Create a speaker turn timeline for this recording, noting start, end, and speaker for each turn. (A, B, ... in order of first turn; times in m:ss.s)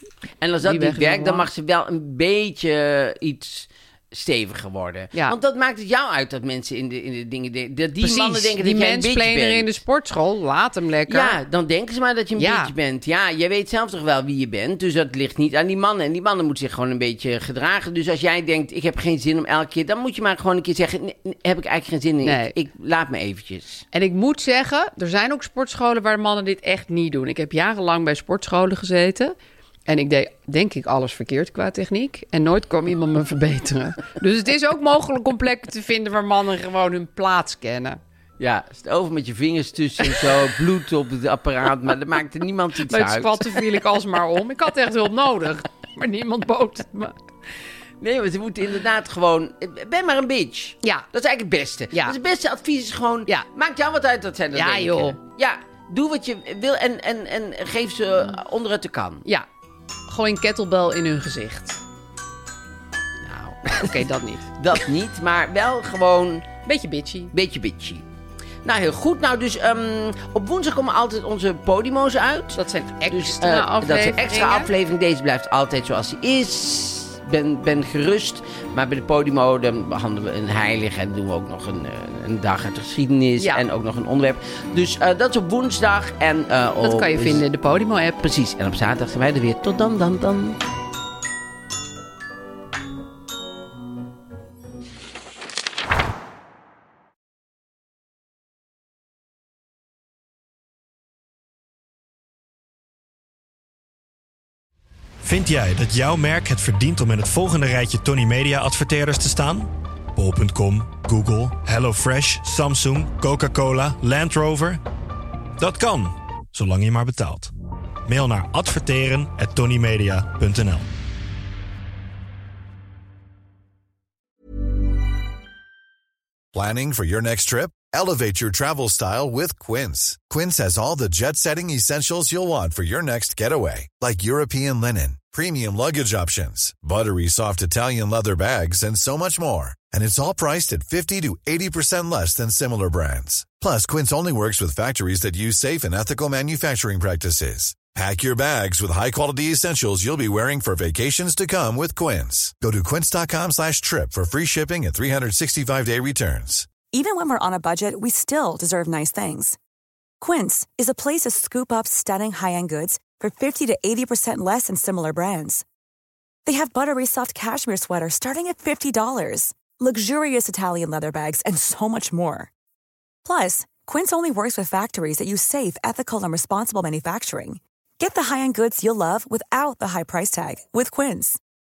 0:00.4-0:09.7 A
0:00.6-0:01.5 B
0:08.0-0:11.4 B
0:11.1-0:23.8 A
0:12.4-0:12.7 B
0:22.2-0:22.5 B
0:23.9-0:29.3 B
0:29.9-0:38.0 B
0:38.4-0:43.6 A
0:42.9-0:47.2 B
0:48.0-0:59.2 A
0:51.9-0:52.2 B
0:54.5-0:55.2 B
1:00.1-1:01.8 B
1:03.2-1:04.0 A
1:03.7-1:04.5 B
1:04.6-1:06.5 A
1:06.7-1:07.3 B
1:07.3-1:08.0 A
1:08.6-1:27.4 A
1:12.6-1:14.7 B
1:26.8-1:28.2 B
1:28.2-1:30.6 A
1:45.2-1:54.8 C
1:55.6-1:57.5 C
1:58.1-2:00.9 C
2:06.5-2:36.8 D
2:36.9-2:39.6 E
2:40.2-2:45.6 E
2:46.4-2:52.5 E
2:53.2-3:01.4 E